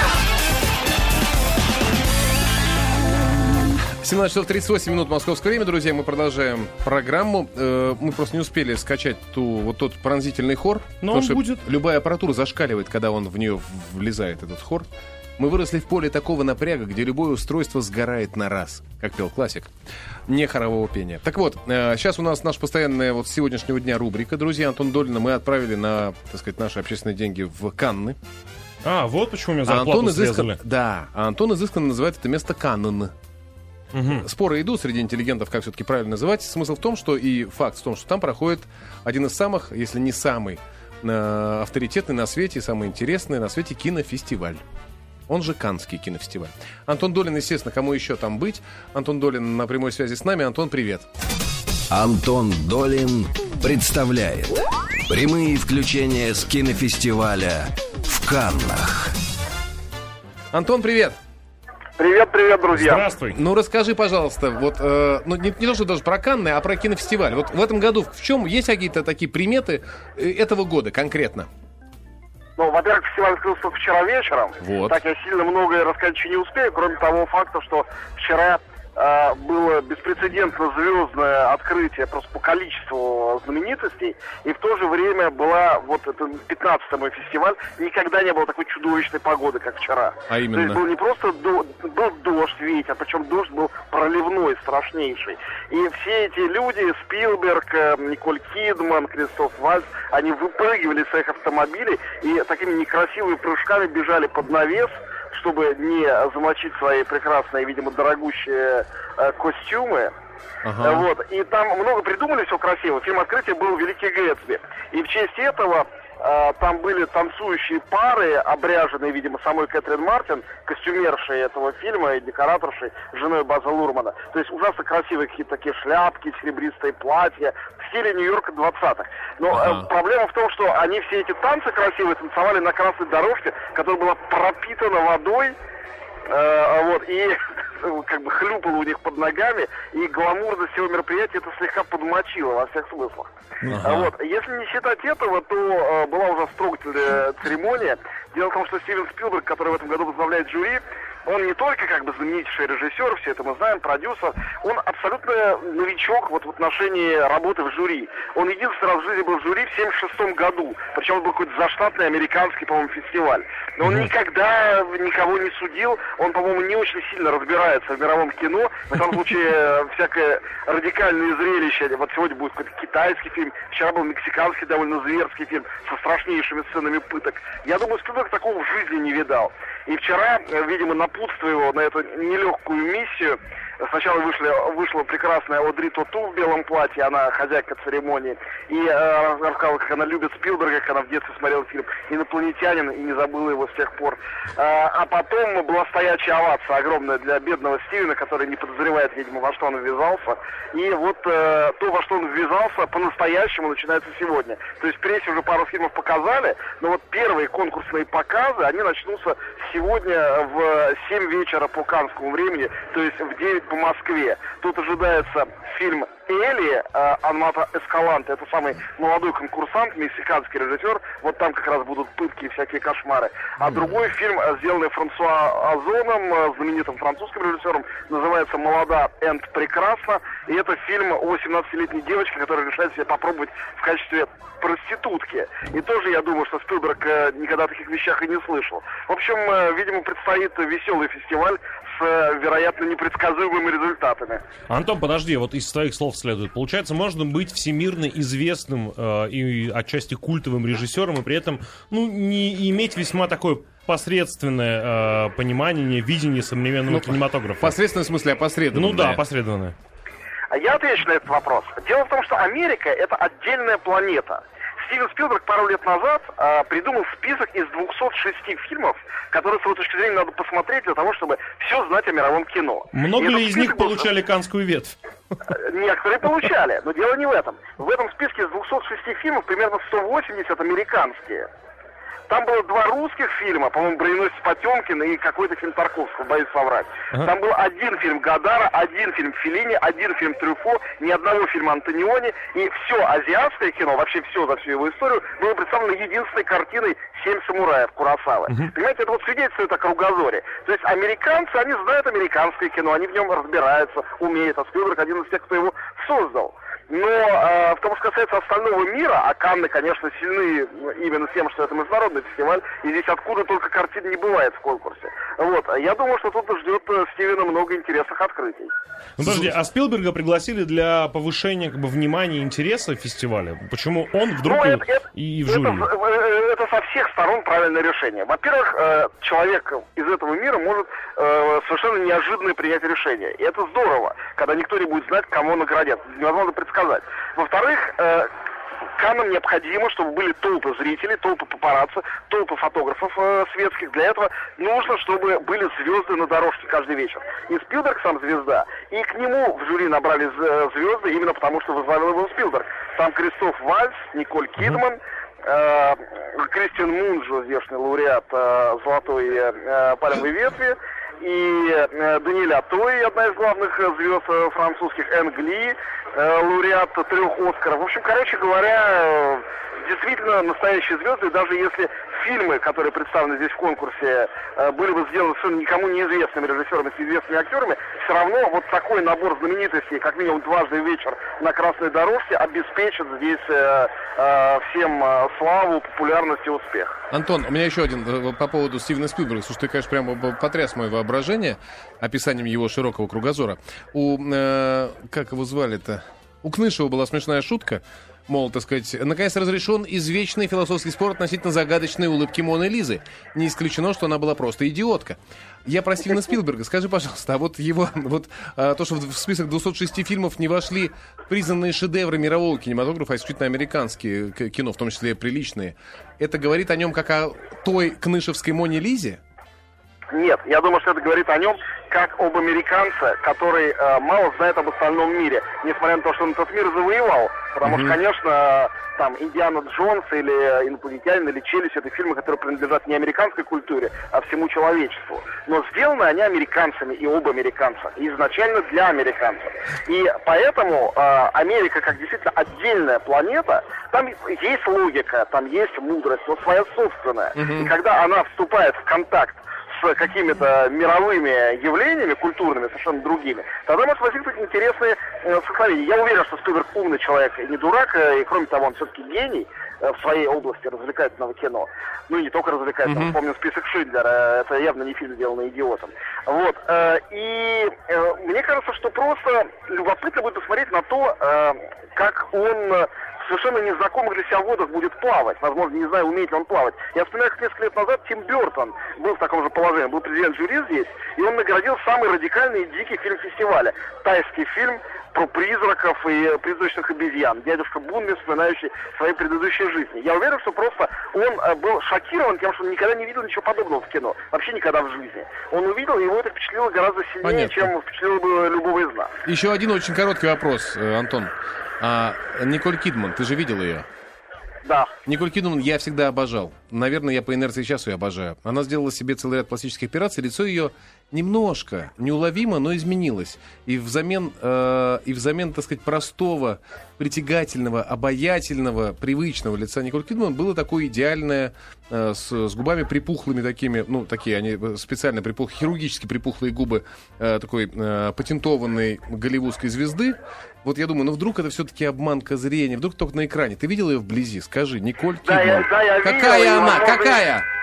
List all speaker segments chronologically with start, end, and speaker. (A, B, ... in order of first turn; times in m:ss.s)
0:04.0-0:14.9 A
0:11.0-0:11.6 B
0:15.4-0:19.7 A
0:20.3-0:28.2 A
0:28.8-0:30.6 B
0:29.6-0:33.1 A
0:33.9-0:34.2 B
0:34.1-0:44.6 A
0:45.3-0:51.0 A
0:51.9-0:59.1 C
1:00.5-1:01.2 A
1:02.0-1:03.1 D
1:02.7-1:03.4 B
1:03.3-1:11.5 A
1:12.6-1:50.1 D
1:14.6-1:15.0 A
1:30.3-1:30.8 A
1:50.6-1:51.0 A
1:50.8-2:15.5 D
2:09.5-2:09.9 A
2:16.3-2:23.3 D
2:23.7-2:24.1 A
2:23.8-4:04.4 D
4:04.7-4:17.8 B
4:16.9-4:19.2 A
4:18.7-4:19.7 B
4:20.5-4:34.1 D
4:32.9-4:35.0 B
4:35.5-4:41.5 D
4:42.3-5:18.7 D
5:19.2-5:25.9 B
5:24.4-5:38.3 D
5:39.0-6:26.9 D
6:27.1-6:59.2 A
7:00.1-8:19.1 D
7:07.6-7:08.0 A
7:27.4-7:27.7 A
7:42.8-7:43.1 A
8:17.2-8:17.7 A
8:19.2-8:23.9 A
8:24.6-8:24.9 D
8:25.0-8:57.4 A
8:55.2-8:57.2 D